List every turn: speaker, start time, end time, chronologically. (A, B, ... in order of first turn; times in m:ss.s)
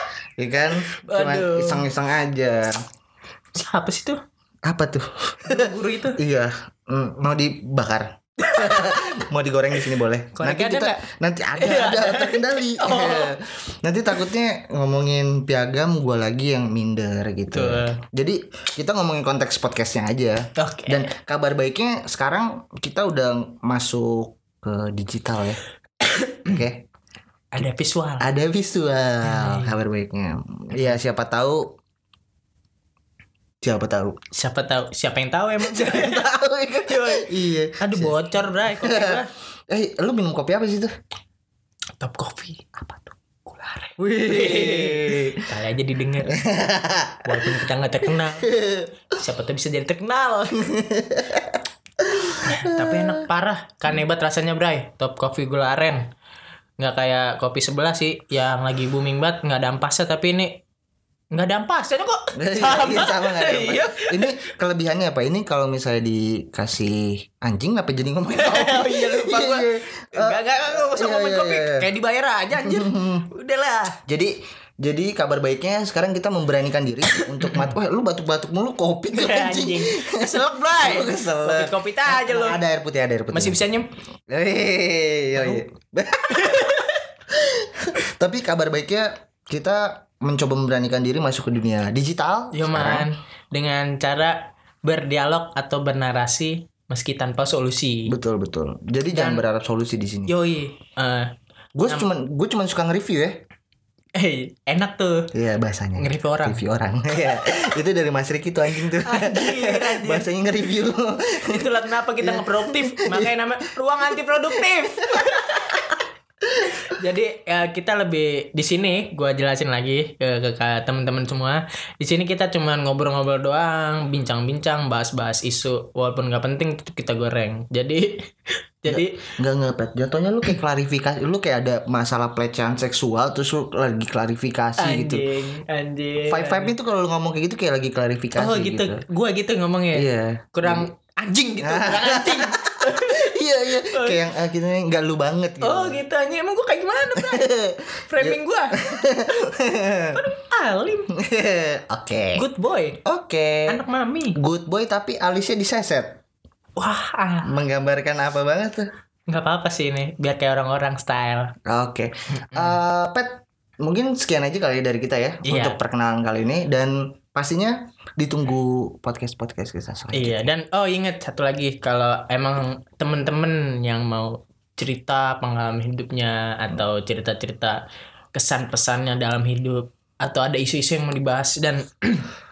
0:00.4-0:02.7 A
0:00.9-0:01.9 B
0:03.5-0:04.2 B
0:04.6-0:25.6 A
0:05.4-0:06.2 B
0:08.4-0:08.8 B
0:10.3-0:10.9 B
0:11.6-0:13.3 B
0:17.5-0:18.0 B
0:20.6-0:21.1 B
0:26.0-0:26.6 B
0:26.4-0:26.8 A
0:27.5-0:28.3 B
0:28.2-0:31.7 A
0:29.2-0:29.7 B
0:33.6-0:34.2 A
0:34.3-0:36.3 B
0:35.6-0:40.9 A
0:36.8-0:39.3 B
0:42.0-0:46.4 B
0:44.0-0:45.4 A
0:46.3-0:47.6 A
0:47.2-0:48.5 B
0:48.4-0:48.9 A
0:49.1-0:50.7 B
0:50.6-0:53.2 A
0:52.4-0:56.0 B
0:56.8-1:00.6 B
1:01.3-1:04.4 B
1:02.3-1:11.9 A
1:08.3-1:14.0 B
1:12.5-1:13.2 A
1:14.0-1:23.6 A
1:17.1-1:17.7 B
1:19.1-1:22.6 B
1:23.3-1:23.9 B
1:24.3-1:26.8 A
1:25.4-1:25.6 B
1:26.3-1:27.0 B
1:27.3-1:33.1 A
1:32.5-1:38.1 B
1:38.1-1:40.3 A
1:39.1-1:39.4 B
1:40.3-1:41.3 B
1:41.8-1:43.4 A
1:44.2-1:45.3 B
1:45.3-1:53.6 A
1:46.0-1:46.6 B
1:49.0-1:50.3 B
1:51.4-1:55.8 B
1:54.2-1:55.6 A
1:56.8-2:08.3 B
2:08.8-2:09.2 B
2:08.9-2:15.2 A
2:14.8-2:16.7 B
2:16.2-2:19.0 A
2:18.4-2:24.2 B
2:19.9-2:20.9 A
2:21.6-2:26.0 A
2:25.6-2:27.5 B
2:27.2-2:30.2 A
2:28.1-2:28.9 B
2:30.1-2:31.1 B
2:31.1-2:32.4 A
2:32.3-2:33.0 B
2:33.0-2:33.8 A
2:33.7-2:34.4 B
2:34.3-2:36.2 A
2:36.8-2:37.6 B
2:37.4-2:38.9 A
2:39.3-2:41.5 B
2:41.6-2:50.5 A
2:42.5-2:42.8 B
2:45.4-2:45.8 B
2:50.1-2:57.8 B
2:58.3-3:02.3 B